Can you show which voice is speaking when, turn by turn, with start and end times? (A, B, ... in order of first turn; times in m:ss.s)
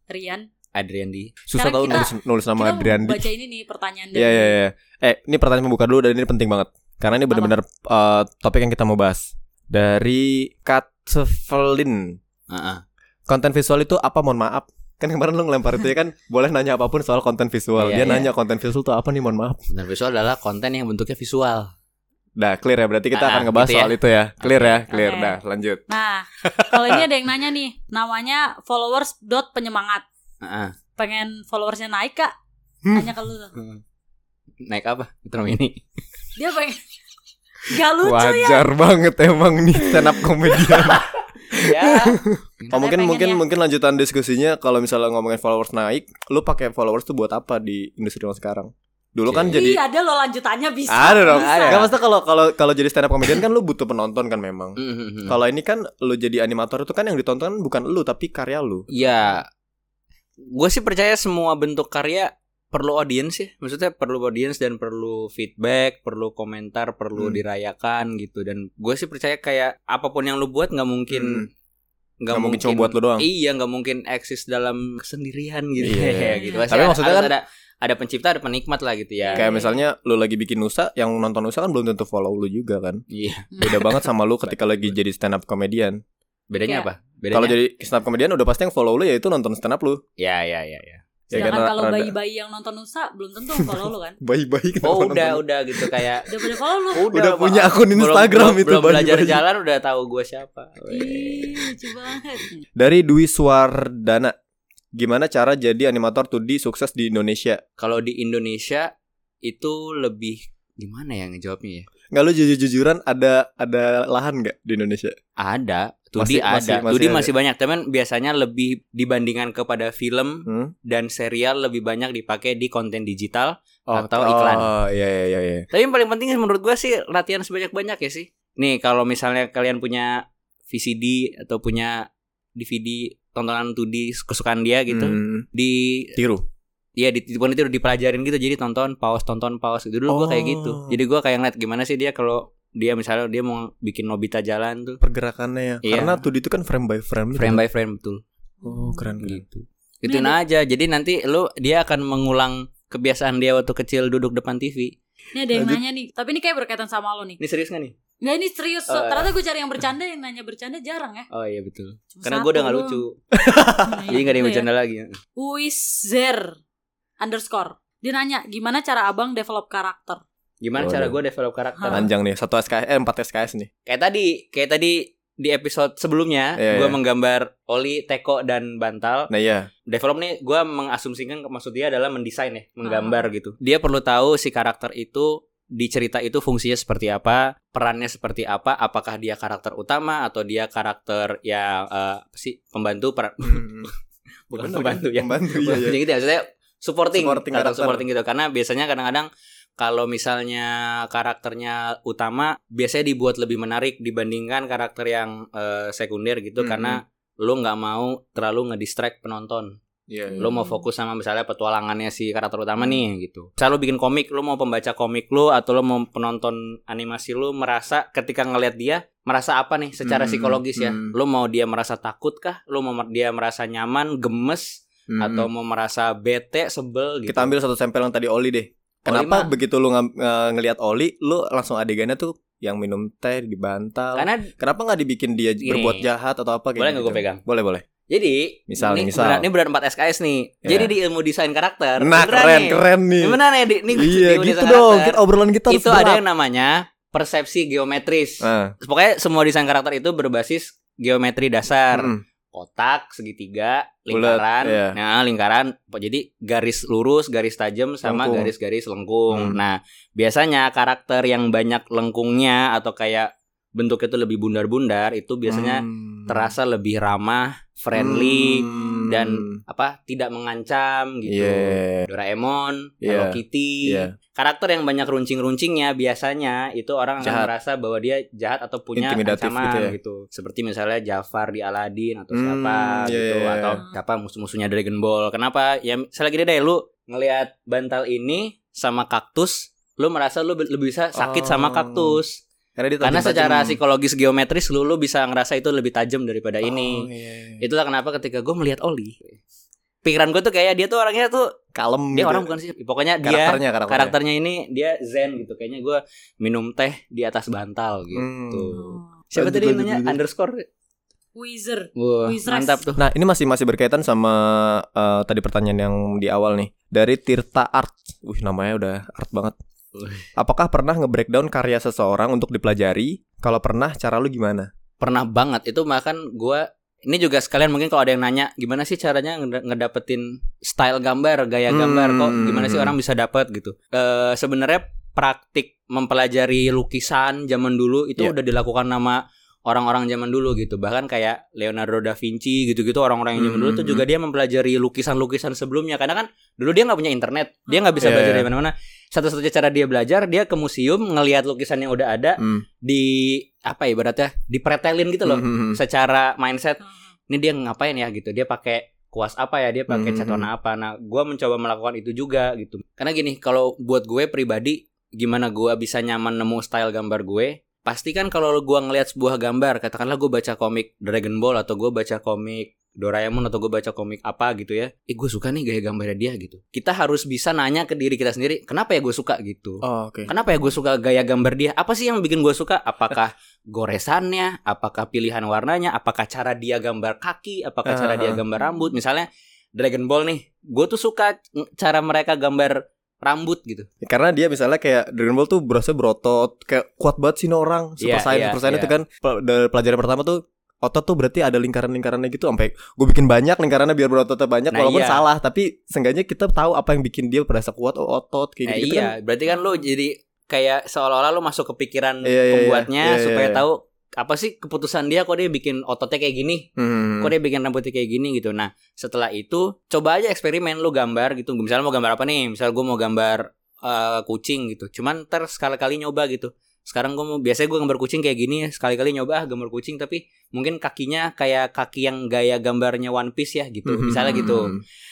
0:00.1-0:00.5 A
0:00.7-0:01.4 B
0:01.5-0:03.3 C
0:01.5-0:04.6 A
0:04.1-0:12.2 C
0:07.3-0:07.6 A
0:12.5-0:12.8 B
0:13.3-0:19.6 C
0:17.8-0:18.3 B
0:19.7-0:21.7 B
0:22.4-0:25.8 C
0:23.1-0:24.8 B
0:24.9-0:25.4 A
0:25.9-0:30.0 A
0:26.4-0:26.9 B
0:30.4-0:30.8 B
0:31.0-0:32.3 A
0:32.9-0:33.1 C
0:32.9-0:33.6 A
0:33.6-0:33.8 B
0:34.6-0:35.8 B
0:36.4-0:36.8 A
0:37.6-0:38.7 A
0:38.0-0:49.8 C
0:41.6-0:42.7 B
0:42.7-0:43.4 A
0:49.2-0:49.6 B
0:49.5-0:51.8 A
0:50.9-0:58.8 C
0:51.3-0:51.9 B
0:54.8-0:55.4 B
0:58.9-0:59.4 B
1:00.5-1:11.5 B
1:07.2-1:07.4 C
1:11.1-1:11.5 C
1:12.2-1:19.5 B
1:12.3-1:13.3 C
1:15.8-1:17.3 C
1:16.4-1:16.6 A
1:19.2-1:19.7 A
1:19.4-1:23.0 C
1:23.1-1:25.0 B
1:23.5-1:23.8 A
1:23.6-1:26.0 C
1:26.5-1:27.6 B
1:26.6-1:26.9 A
1:27.3-1:30.0 C
1:30.2-1:31.0 B
1:31.3-1:32.1 C
1:31.3-1:34.2 A
1:33.6-1:36.0 C
1:34.8-1:36.3 B
1:36.3-1:37.1 A
1:36.9-1:41.7 B
1:37.1-1:39.4 C
1:40.9-1:42.6 A
1:42.8-1:44.3 C
1:44.9-1:47.6 C
1:47.8-1:48.9 B
1:49.4-1:51.9 B
1:52.1-1:55.1 C
1:55.4-2:04.7 B
1:56.2-1:57.3 C
2:00.5-2:00.7 C
2:03.9-2:05.6 C
2:05.7-2:16.2 B
2:14.9-2:15.4 C
2:16.2-2:16.4 C
2:17.0-2:25.0 B
2:20.1-2:21.0 C
2:25.0-2:27.6 C
2:25.8-2:26.2 B
2:27.3-2:28.2 B
2:28.6-2:29.1 A
2:28.6-2:29.4 C
2:29.2-2:34.9 B
2:30.0-2:30.4 A
2:35.3-2:37.4 A
2:35.5-2:35.8 C
2:37.4-2:38.0 B
2:38.2-2:41.3 A
2:38.9-2:39.3 B
2:41.3-2:43.2 B
2:42.1-2:43.0 A
2:43.4-2:44.1 C
2:43.8-2:44.7 A
2:44.1-2:45.1 B
2:45.4-2:46.6 A
2:47.2-2:50.2 A
2:50.6-2:52.1 B
2:50.8-2:51.2 C
2:51.9-2:53.7 C
2:53.8-2:59.3 B
2:56.6-2:57.0 C
2:59.3-2:59.7 C
2:59.9-3:13.9 B
3:02.8-3:03.3 A
3:13.4-3:13.9 C
3:14.5-3:29.7 B
3:14.5-3:16.0 C
3:17.1-3:18.0 C
3:26.6-3:27.0 C
3:30.1-3:30.6 C
3:30.3-3:30.8 A
3:30.4-3:47.5 B
3:40.0-3:41.1 C
3:45.1-3:45.5 C
3:47.2-3:57.8 C
3:49.0-3:49.5 B
3:54.1-3:54.5 B
3:55.6-3:56.1 B
3:56.8-3:57.4 B
3:58.1-4:52.4 B
3:58.7-3:59.5 C
4:00.6-4:00.9 C
4:02.0-4:03.4 C
4:03.9-4:06.2 C
4:08.4-4:08.7 C
4:11.9-4:12.2 C
4:14.1-4:15.0 C
4:18.0-4:18.5 C
4:19.3-4:19.6 C
4:25.4-4:26.5 C
4:27.9-4:29.6 C
4:28.7-4:29.0 A
4:31.3-4:32.1 C
4:33.0-4:34.1 C
4:37.2-4:37.5 C
4:38.9-4:40.0 C
4:42.3-4:43.8 C
4:51.1-4:52.2 C
4:52.8-4:53.8 C
4:53.0-4:57.1 B
4:56.6-4:57.6 C
4:57.6-4:59.4 B
5:00.0-5:01.4 B
5:01.7-5:02.5 C
5:02.1-5:10.6 B
5:03.2-5:04.1 C
5:08.1-5:10.2 C
5:08.7-5:09.1 A
5:11.3-5:12.9 A
5:12.0-5:13.0 B
5:13.0-5:19.5 C
5:19.9-5:20.3 B
5:20.4-5:24.7 C
5:25.0-6:33.9 B
5:31.7-5:33.0 C
5:43.4-5:44.0 C
5:47.7-5:48.1 A
5:48.0-5:48.5 C
5:52.4-5:52.6 C
5:55.2-5:55.8 C
5:59.9-6:00.5 C
6:19.8-6:20.3 C
6:27.8-6:28.4 C
6:28.6-6:29.0 A
6:34.0-6:49.1 C
6:38.0-6:38.9 B
6:44.7-6:45.2 B
6:48.6-6:56.7 B
6:52.2-6:53.6 C
6:56.8-6:57.3 C
6:57.2-7:14.7 B
7:13.8-7:14.8 C
7:14.2-7:14.7 A